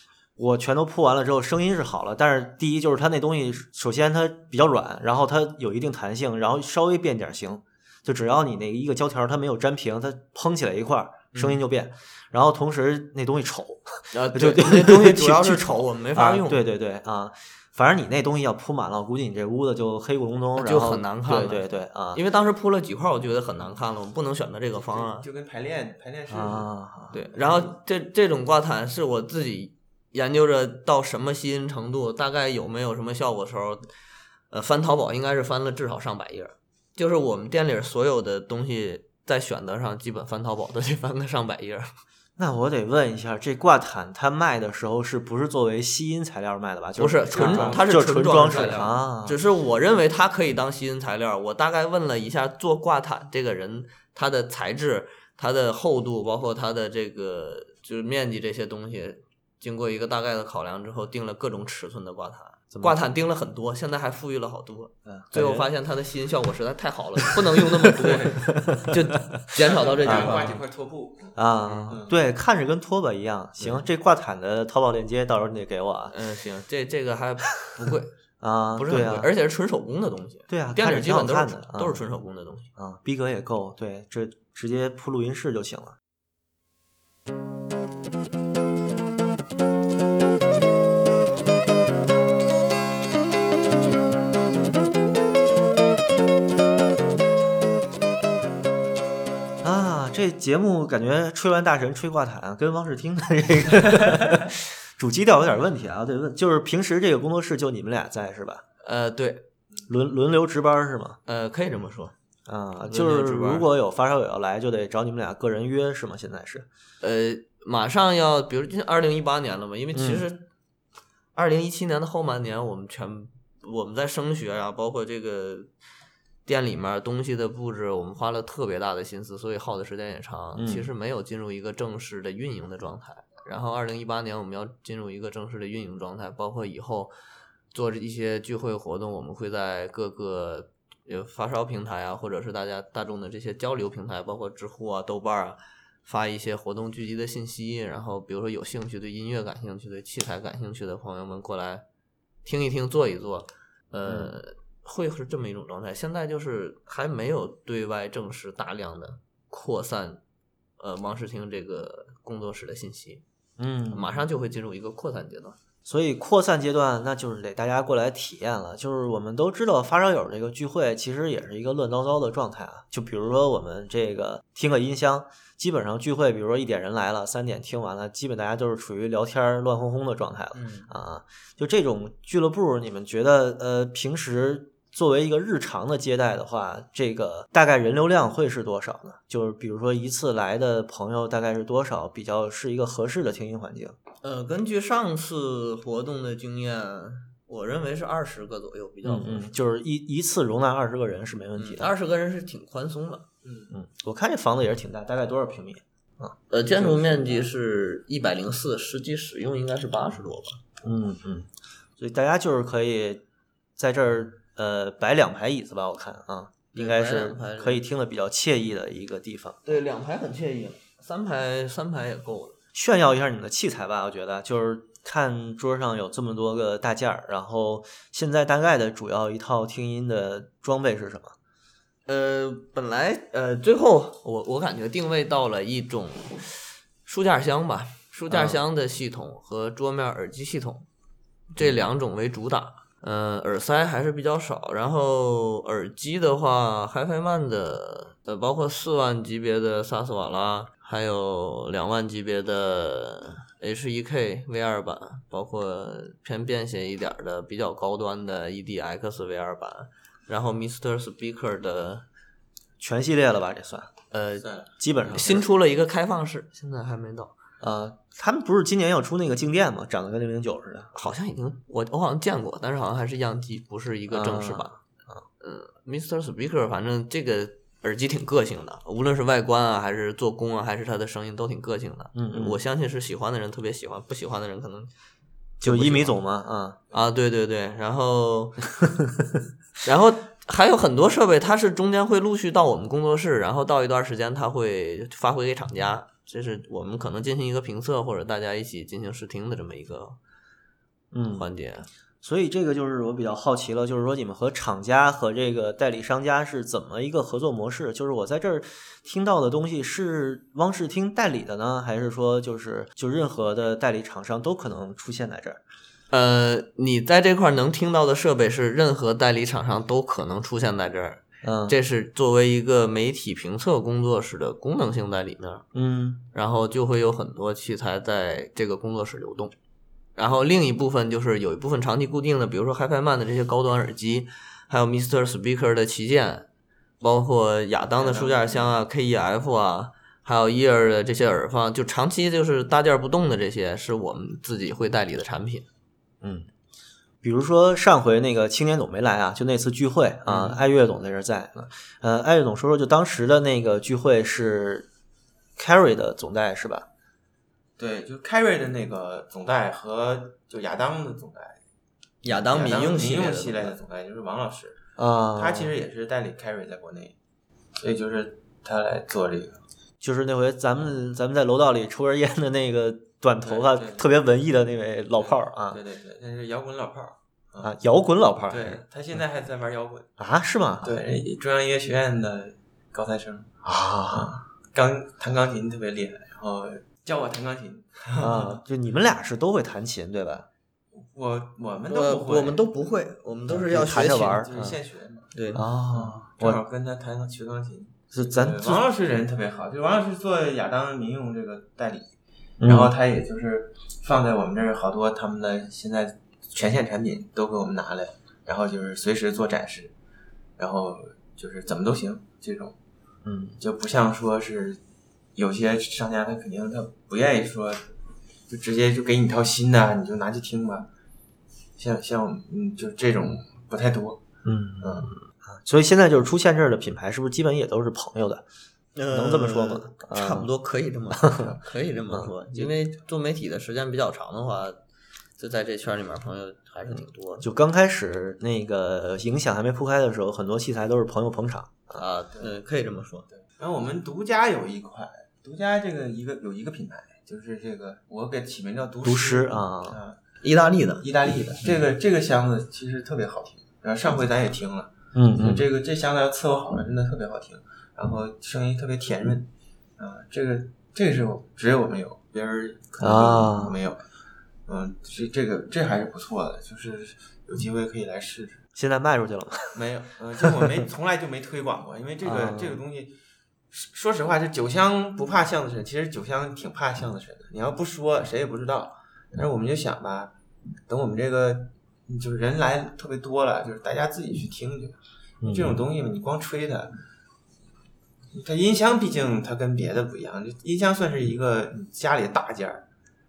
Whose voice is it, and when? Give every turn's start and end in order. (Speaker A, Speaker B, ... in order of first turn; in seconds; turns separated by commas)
Speaker A: 0.4-22.2, Speaker B: 11.3-11.6, Speaker B: 14.1-16.6, Speaker B: 20.6-25.3, Speaker C: 24.8-26.7, Speaker A: 26.3-27.2, Speaker B: 27.1-33.9, Speaker B: 34.5-41.9, Speaker A: 42.4-49.4, Speaker B: 47.0-70.6, Speaker C: 47.3-47.8, Speaker A: 62.7-63.0, Speaker A: 65.0-65.7, Speaker A: 67.3-69.5, Speaker C: 68.0-68.6, Speaker C: 69.6-72.2, Speaker A: 70.0-70.5, Speaker A: 71.4-76.2, Speaker B: 76.1-78.1, Speaker A: 78.4-79.3, Speaker B: 78.8-82.7, Speaker A: 80.5-82.0, Speaker A: 82.8-86.0, Speaker A: 99.6-108.6, Speaker B: 108.8-109.4, Speaker A: 109.9-111.2, Speaker B: 111.3-112.1, Speaker A: 112.5-116.7, Speaker B: 112.8-113.7, Speaker B: 117.0-120.5, Speaker A: 119.9-120.2, Speaker B: 121.3-125.7, Speaker B: 126.5-137.1, Speaker A: 130.6-130.9, Speaker B: 137.7-151.8, Speaker B: 152.4-160.2, Speaker A: 154.1-154.3, Speaker B: 160.8-163.2, Speaker A: 163.6-164.2, Speaker B: 163.9-165.6, Speaker A: 165.8-194.0, Speaker B: 180.5-180.9, Speaker B: 194.2-199.5, Speaker A: 199.0-201.9, Speaker B: 201.6-203.3, Speaker C: 203.4-203.7, Speaker A: 203.7-206.3, Speaker B: 206.5-210.6, Speaker C: 206.8-207.5, Speaker A: 210.8-213.2, Speaker A: 213.8-219.8, Speaker B: 216.8-217.8, Speaker B: 219.7-222.6, Speaker A: 222.7-231.3, Speaker B: 232.1-240.9, Speaker A: 238.3-238.6, Speaker B: 241.5-262.1, Speaker A: 262.8-263.9, Speaker B: 264.1-264.5, Speaker C: 264.4-265.3, Speaker A: 264.8-265.4, Speaker B: 265.1-267.3, Speaker A: 267.6-270.9, Speaker B: 270.9-274.8, Speaker A: 274.1-275.2, Speaker B: 275.4-284.9, Speaker A: 282.1-282.6, Speaker A: 285.6-286.8, Speaker B: 285.6-286.2, Speaker B: 286.9-288.6, Speaker A: 288.8-289.1, Speaker B: 289.8-300.2, Speaker A: 301.1-301.5, Speaker B: 301.3-301.9, Speaker A: 302.2-315.6, Speaker B: 316.1-325.7, Speaker A: 321.4-321.8, Speaker A: 325.7-326.2, Speaker B: 326.3-329.5, Speaker B: 330.2-336.5, Speaker B: 337.0-345.7, Speaker C: 338.0-338.8, Speaker A: 346.2-346.5, Speaker A: 347.2-354.9, Speaker C: 350.3-350.6, Speaker A: 355.6-356.9, Speaker C: 357.8-361.6, Speaker B: 362.2-363.8, Speaker C: 362.5-364.8, Speaker A: 365.0-365.7, Speaker C: 365.3-367.2, Speaker C: 367.8-369.6, Speaker A: 370.0-375.8, Speaker C: 373.4-374.1, Speaker C: 375.2-377.8, Speaker A: 377.6-378.8, Speaker C: 378.5-380.1, Speaker A: 380.2-380.9, Speaker C: 380.8-383.6, Speaker A: 383.6-384.4, Speaker C: 384.1-388.6, Speaker A: 388.2-390.5, Speaker C: 390.9-392.6, Speaker B: 391.9-394.5, Speaker A: 393.5-394.8, Speaker C: 394.0-395.3, Speaker B: 395.4-395.6, Speaker A: 395.5-396.6, Speaker C: 395.9-402.1, Speaker A: 398.1-398.9, Speaker A: 402.6-402.9, Speaker C: 402.6-409.9, Speaker C: 410.6-412.8, Speaker A: 413.2-413.6, Speaker C: 413.6-414.8, Speaker C: 415.4-417.9, Speaker C: 418.5-420.9, Speaker C: 421.8-424.2, Speaker A: 424.4-428.4, Speaker C: 424.8-425.1, Speaker B: 428.9-434.8, Speaker A: 429.1-430.5, Speaker A: 431.2-431.5, Speaker A: 432.1-432.7, Speaker B: 435.4-437.5, Speaker A: 437.4-442.0, Speaker B: 441.9-443.3, Speaker C: 442.3-442.6, Speaker C: 443.3-450.2, Speaker A: 449.0-450.0, Speaker B: 450.4-451.1, Speaker C: 451.0-464.0, Speaker A: 455.1-455.6, Speaker A: 463.0-463.8, Speaker C: 464.7-468.6, Speaker A: 468.8-469.8, Speaker C: 469.7-473.2, Speaker A: 472.2-472.8, Speaker C: 473.7-480.3, Speaker C: 480.9-487.0, Speaker A: 485.4-485.8, Speaker C: 488.3-492.9